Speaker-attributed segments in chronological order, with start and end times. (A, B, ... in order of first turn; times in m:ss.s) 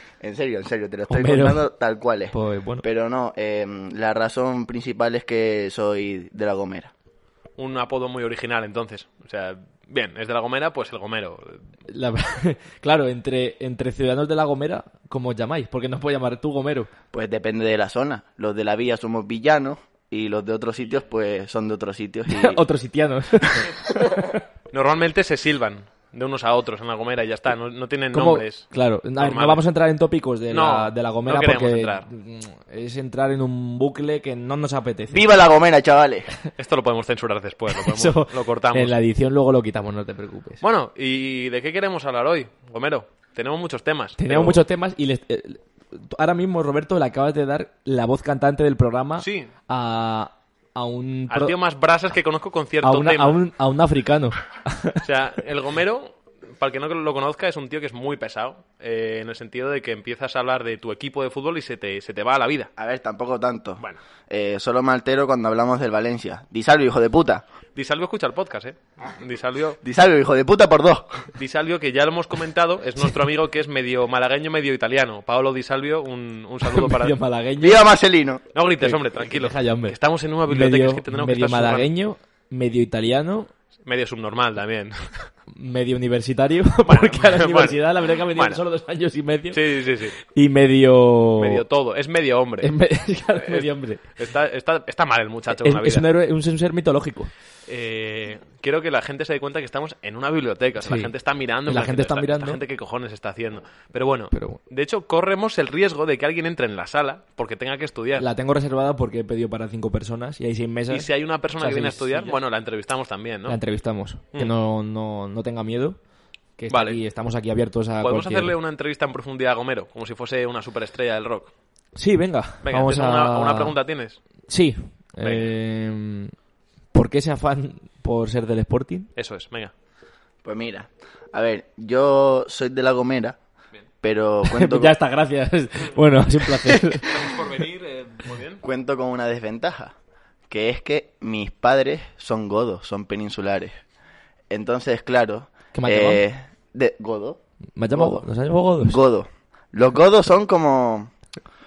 0:00.2-0:06.9 A
0:01.1-0:01.6 B
0:02.3-0:02.8 B
0:07.6-0:11.6 C
0:11.9-0:16.9 B
0:17.1-0:22.6 A
0:22.3-0:24.4 B
0:24.7-0:28.7 C
0:28.1-0:35.2 B
0:29.2-0:29.6 C
0:30.5-0:32.1 C
0:35.1-0:36.3 A
0:36.6-0:38.9 C
0:37.7-0:40.6 B
0:40.6-0:44.6 C
0:44.2-0:51.5 B
0:49.2-0:49.5 C
0:51.3-0:53.4 C
0:52.8-0:55.0 B
0:55.0-1:02.7 C
1:02.8-1:07.4 A
1:07.8-1:09.8 C
1:09.8-1:11.3 A
1:11.4-1:17.2 C
1:16.6-1:17.9 B
1:17.6-1:18.4 A
1:18.5-1:21.9 C
1:18.8-1:20.0 B
1:20.5-1:23.5 B
1:23.8-1:25.3 C
1:25.6-1:29.6 B
1:26.9-1:28.6 C
1:29.5-1:30.2 C
1:30.2-1:31.6 B
1:31.4-1:32.7 C
1:32.6-1:34.0 B
1:33.4-1:36.1 C
1:35.5-1:37.3 B
1:37.7-1:48.3 C
1:40.8-1:41.1 B
1:41.7-1:42.6 B
1:44.3-1:44.6 B
1:48.2-1:51.1 B
1:50.9-1:53.6 C
1:51.6-1:52.4 B
1:53.5-1:56.0 B
1:56.6-1:58.5 B
1:56.7-1:57.0 C
1:58.0-2:01.5 C
2:02.0-2:03.7 B
2:02.6-2:04.2 C
2:04.5-2:06.3 B
2:05.2-2:05.5 C
2:06.9-2:09.1 B
2:09.2-2:09.7 C
2:10.4-2:13.4 A
2:14.0-2:14.9 A
2:14.5-2:17.4 B
2:16.6-2:18.6 C
2:18.6-2:20.0 A
2:20.5-2:23.8 A
2:24.5-2:27.4 A
2:25.7-2:26.2 B
2:27.8-2:29.0 B
2:27.9-2:28.2 A
2:28.8-2:31.1 A